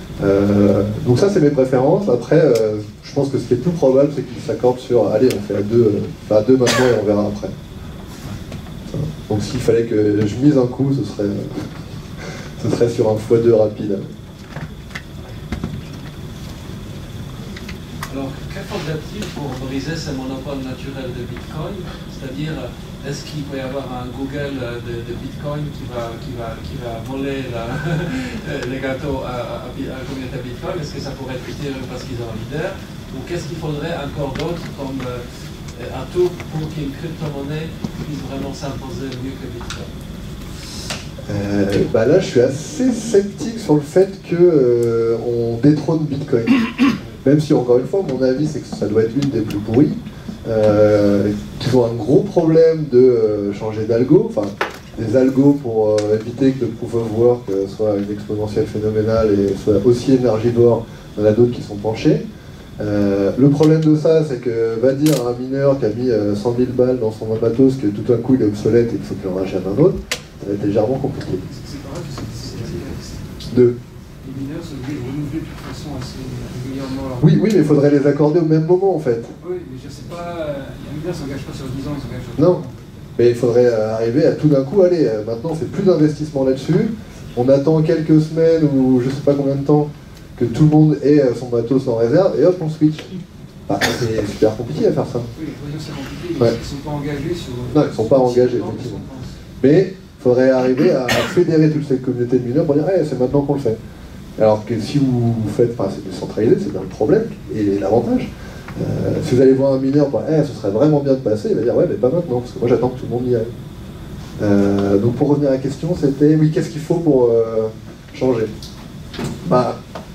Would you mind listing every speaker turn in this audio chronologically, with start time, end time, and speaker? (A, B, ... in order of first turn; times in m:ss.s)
0:00.2-0:07.6 A
0:08.9-0:11.7 A
0:12.6-0:14.1 A
0:18.1-0:39.9 B
0:41.3-0:46.7 A
0:47.2-1:02.2 A
1:02.8-1:11.4 A
1:11.5-1:13.2 C
1:13.5-1:13.8 A
1:14.2-1:17.2 C
1:17.2-1:19.4 A
1:19.4-1:22.7 C
1:22.4-1:22.6 A
1:23.2-1:33.1 A
1:33.7-1:35.3 A
1:35.3-1:39.2 C
1:37.7-1:39.0 A
1:39.6-1:43.8 A
1:44.4-1:53.5 A
1:54.4-1:58.5 A
1:59.4-1:59.8 A